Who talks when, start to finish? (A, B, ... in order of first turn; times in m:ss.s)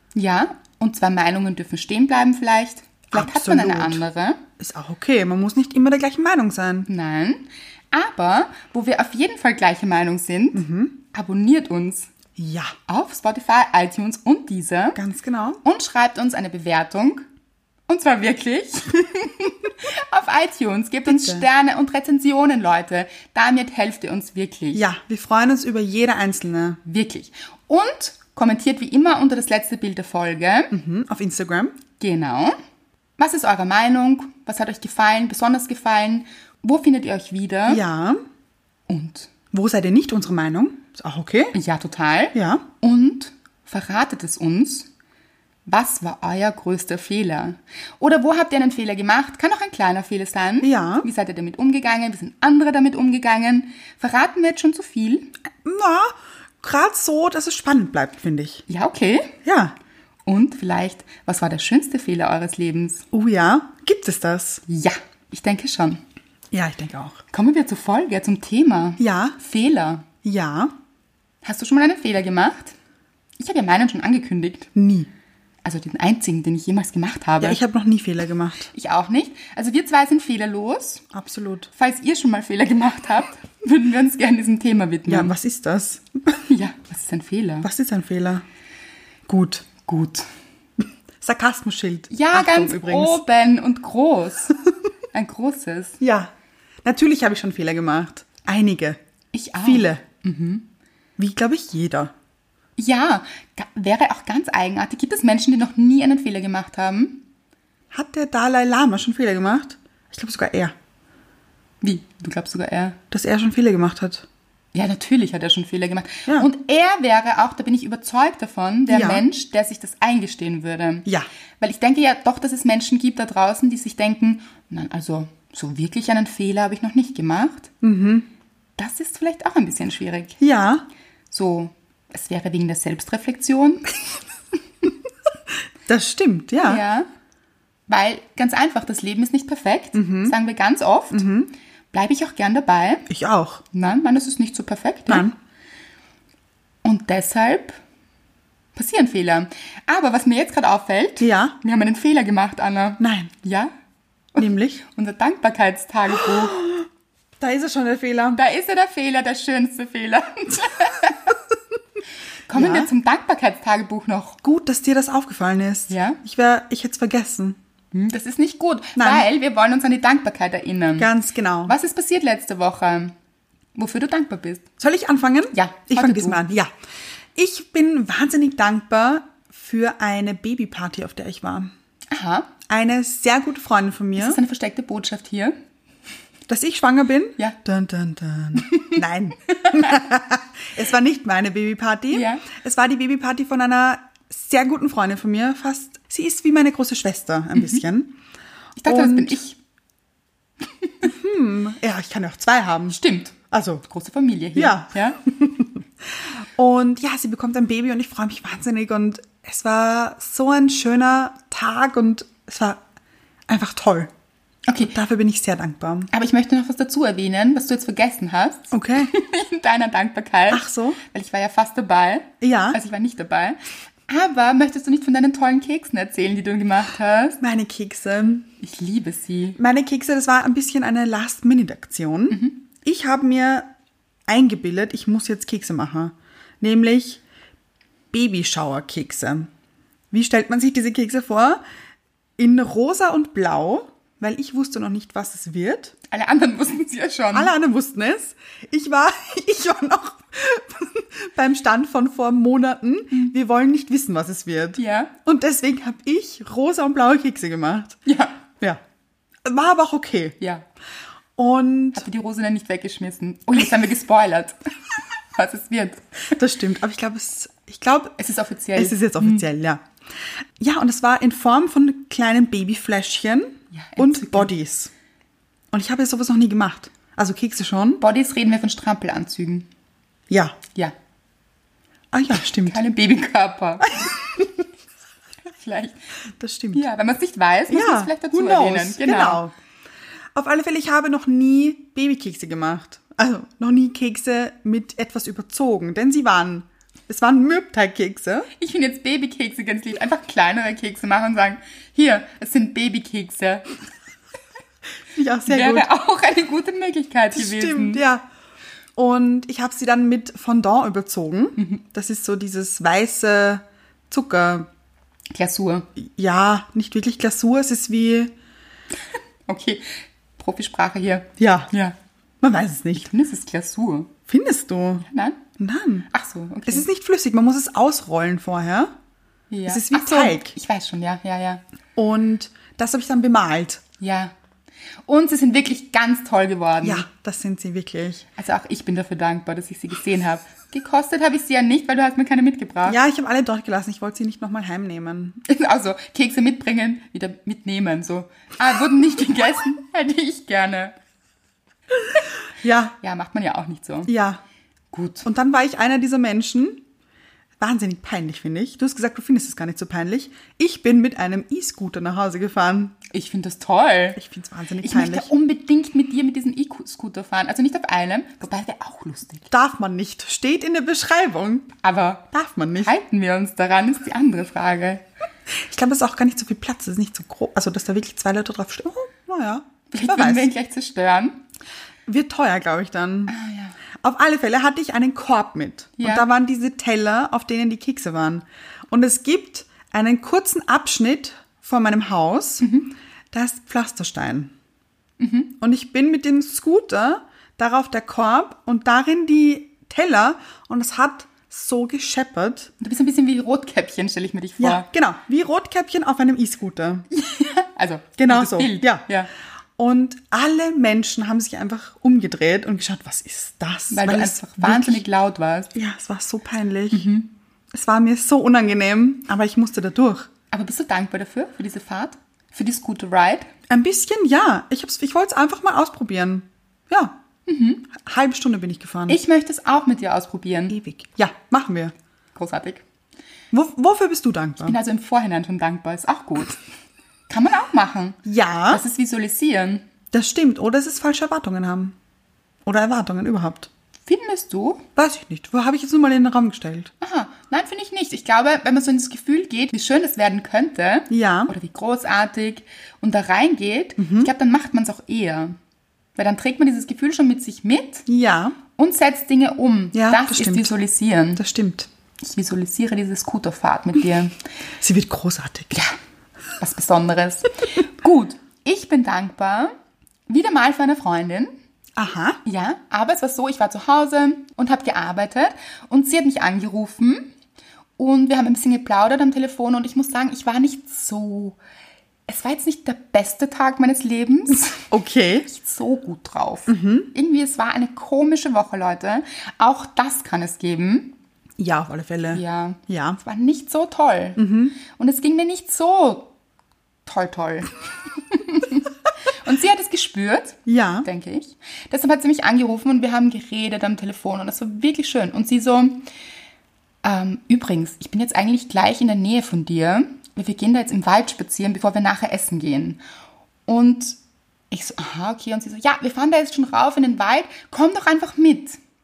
0:00.1-0:04.4 A
0:03.1-0:04.0 B
0:04.6-0:06.9 B
0:06.9-0:12.1 A
0:10.5-0:10.9 B
0:12.4-0:12.8 B
0:12.9-0:15.0 A
0:14.9-0:15.6 B
0:15.6-0:17.2 A
0:17.9-0:24.8 A
0:21.0-0:21.4 B
0:24.7-0:26.8 B
0:26.8-0:30.7 A
0:30.7-0:31.7 B
0:32.0-0:32.5 A
0:33.2-0:37.8 A
0:37.7-0:38.2 B
0:38.9-0:39.3 A
0:39.5-0:41.5 B
0:41.5-0:44.9 A
0:42.3-0:42.6 B
0:45.6-0:55.3 A
0:50.6-0:51.1 B
0:55.6-0:58.6 B
0:58.7-0:59.4 A
0:59.4-0:59.8 B
1:00.2-1:03.0 A
1:03.1-1:04.6 B
1:04.7-1:06.0 A
1:06.5-1:07.2 B
1:07.3-1:10.1 A
1:09.0-1:09.4 B
1:10.2-1:10.7 B
1:11.4-1:12.7 A
1:13.4-1:14.7 A
1:14.7-1:15.1 B
1:15.6-1:17.6 A
1:17.4-1:18.7 B
1:18.7-1:21.1 A
1:21.1-1:21.7 B
1:21.7-1:25.3 A
1:25.1-1:26.4 B
1:26.4-1:27.7 A
1:27.6-1:28.4 B
1:29.3-1:29.7 B
1:29.8-1:30.3 A
1:31.2-1:33.2 B
1:32.1-1:34.6 A
1:35.1-1:36.0 A
1:36.0-1:36.3 B
1:36.8-1:39.0 B
1:39.3-1:40.6 A
1:39.6-1:40.0 B
1:41.2-1:42.1 B
1:42.8-1:47.2 A
1:47.9-1:50.7 B
1:51.8-1:53.0 A
1:53.1-1:54.2 B
1:54.7-2:01.0 A
1:58.9-1:59.2 B
2:01.6-2:07.7 A
2:07.8-2:08.3 B
2:08.8-2:10.4 A
2:10.4-2:10.8 B
2:11.3-2:13.9 A
2:15.8-2:16.8 B
2:16.6-2:17.1 A
2:17.9-2:21.3 A
2:19.9-2:20.4 B
2:21.1-2:21.5 B
2:21.9-2:23.1 A
2:23.1-2:23.6 B
2:23.7-2:25.3 A
2:25.1-2:25.3 B
2:26.8-2:27.8 A
2:28.7-2:33.7 A
2:31.2-2:31.6 B
2:33.0-2:33.3 B
2:34.3-2:36.6 A
2:34.4-2:34.8 B
2:36.2-2:36.9 B
2:37.4-2:38.4 B
2:38.3-2:41.4 A
2:42.5-2:44.4 A
2:42.5-2:42.9 B
2:44.4-2:47.6 B
2:45.9-2:46.2 A
2:47.9-2:51.1 A
2:49.0-2:49.3 B
2:51.0-2:51.7 B
2:51.6-2:53.1 A
2:53.8-2:54.6 A
2:54.8-2:56.7 B
2:55.5-2:56.4 A
2:57.3-3:01.7 B
3:02.1-3:02.5 A
3:02.7-3:04.4 B
3:04.2-3:05.5 A
3:06.5-3:18.2 B
3:08.6-3:09.0 A
3:12.1-3:12.4 A
3:17.5-3:17.8 A
3:18.8-3:19.6 A
3:18.8-3:19.4 B
3:21.0-3:23.8 B
3:22.9-3:23.4 A
3:23.9-3:25.2 A
3:24.6-3:32.8 B
3:33.5-3:34.1 B
3:34.7-3:34.9 A
3:34.8-3:36.1 B
3:36.1-3:47.4 A
3:38.7-3:39.1 B
3:40.5-3:41.0 B
3:42.4-3:42.8 B
3:47.4-3:48.5 B
3:48.6-3:49.6 A
3:49.6-3:53.7 B
3:52.3-3:52.6 A
3:54.3-3:57.2 B
3:58.1-3:59.5 B
4:00.1-4:01.6 B
4:02.4-4:05.9 B
4:06.1-4:07.5 A
4:07.3-4:18.0 B
4:14.8-4:15.1 A
4:18.0-4:18.4 A
4:19.4-4:20.4 B
4:20.4-4:20.6 A
4:21.4-4:22.0 B
4:21.9-4:24.6 A
4:25.3-4:26.0 A
4:26.4-4:28.2 B
4:28.2-4:29.4 A
4:28.7-4:29.8 B
4:30.6-4:34.9 B
4:33.7-4:34.5 A
4:35.7-4:38.0 B
4:38.0-4:39.7 A
4:40.3-4:40.6 B
4:42.1-4:42.8 B
4:42.6-4:44.2 A
4:45.5-4:46.0 A
4:46.4-4:46.8 B
4:46.7-4:49.4 A
4:47.7-4:49.5 B
4:50.3-4:58.5 B
4:58.6-5:03.7 A
5:05.1-5:05.9 B
5:05.5-5:08.0 A
5:07.3-5:08.2 B
5:09.0-5:14.7 B
5:15.3-5:15.9 A
5:16.0-5:18.3 B
5:19.5-5:21.9 A
5:21.4-5:21.7 B
5:22.4-5:23.1 B
5:23.0-5:24.1 A
5:24.3-5:25.0 B
5:25.0-5:25.4 A
5:25.6-5:26.1 B
5:26.1-5:26.8 A
5:26.6-5:28.9 B
5:29.5-5:31.6 A
5:29.7-5:30.5 B
5:32.0-5:33.8 B
5:34.0-5:34.3 A
5:35.1-5:37.1 A
5:36.8-5:38.2 B
5:38.4-5:43.0 A
5:42.8-5:45.4 B
5:45.4-5:50.9 A
5:52.6-5:52.9 B
5:53.0-5:54.1 A
5:54.1-5:54.4 B
5:54.9-5:55.2 A
5:55.2-5:56.8 B
5:57.6-6:03.0 B
6:03.1-6:04.2 A
6:04.2-6:05.3 B
6:04.8-6:09.5 A
6:09.5-6:11.7 B
6:11.8-6:12.3 A
6:12.3-6:12.9 B
6:12.8-6:15.0 A
6:15.6-6:20.5 B
6:19.9-6:21.4 A
6:22.0-6:23.3 B
6:23.3-6:23.8 A
6:23.9-6:32.6 B
6:26.0-6:26.3 A
6:32.6-6:32.9 A
6:33.3-6:34.5 B
6:35.2-6:35.5 A
6:35.6-6:42.7 B
6:42.8-6:44.9 A
6:44.6-6:47.1 B
6:47.1-6:49.3 A
6:48.2-6:49.0 B
6:49.8-6:55.0 B
6:53.9-6:55.7 A
6:55.7-6:57.1 B
6:56.9-6:57.3 A
6:57.7-7:00.3 B
7:00.5-7:03.5 A
7:03.7-7:07.2 B
7:07.4-7:07.9 A
7:07.9-7:09.2 B
7:09.1-7:10.8 A
7:10.7-7:11.9 B
7:12.3-7:12.8 A
7:13.5-7:14.8 B
7:14.6-7:16.6 A
7:17.3-7:19.8 A
7:18.2-7:18.8 B
7:20.1-7:21.9 B
7:22.6-7:23.7 B
7:24.0-7:24.8 A
7:25.0-7:26.9 B
7:27.0-7:35.6 A
7:31.1-7:31.5 B
7:34.0-7:34.3 B
7:36.2-7:38.0 A
7:38.1-7:38.6 B
7:38.8-7:41.4 A
7:39.9-7:40.8 B
7:41.4-7:41.9 B
7:42.2-7:44.4 A
7:44.8-7:45.7 B
7:46.6-7:49.7 A
7:50.3-7:51.5 A
7:52.0-7:52.4 B
7:52.4-7:57.3 A
7:58.0-8:01.6 A
8:02.3-8:04.9 A
8:04.9-8:05.5 B
8:05.4-8:11.1 A
8:06.7-8:07.1 B
8:11.6-8:13.2 B
8:12.3-8:16.3 A
8:14.4-8:14.8 B
8:17.0-8:17.7 A
8:18.3-8:18.9 A
8:19.4-8:26.0 A
8:20.6-8:21.1 B
8:27.0-8:33.0 A
8:33.7-8:34.2 A
8:34.7-8:38.8 A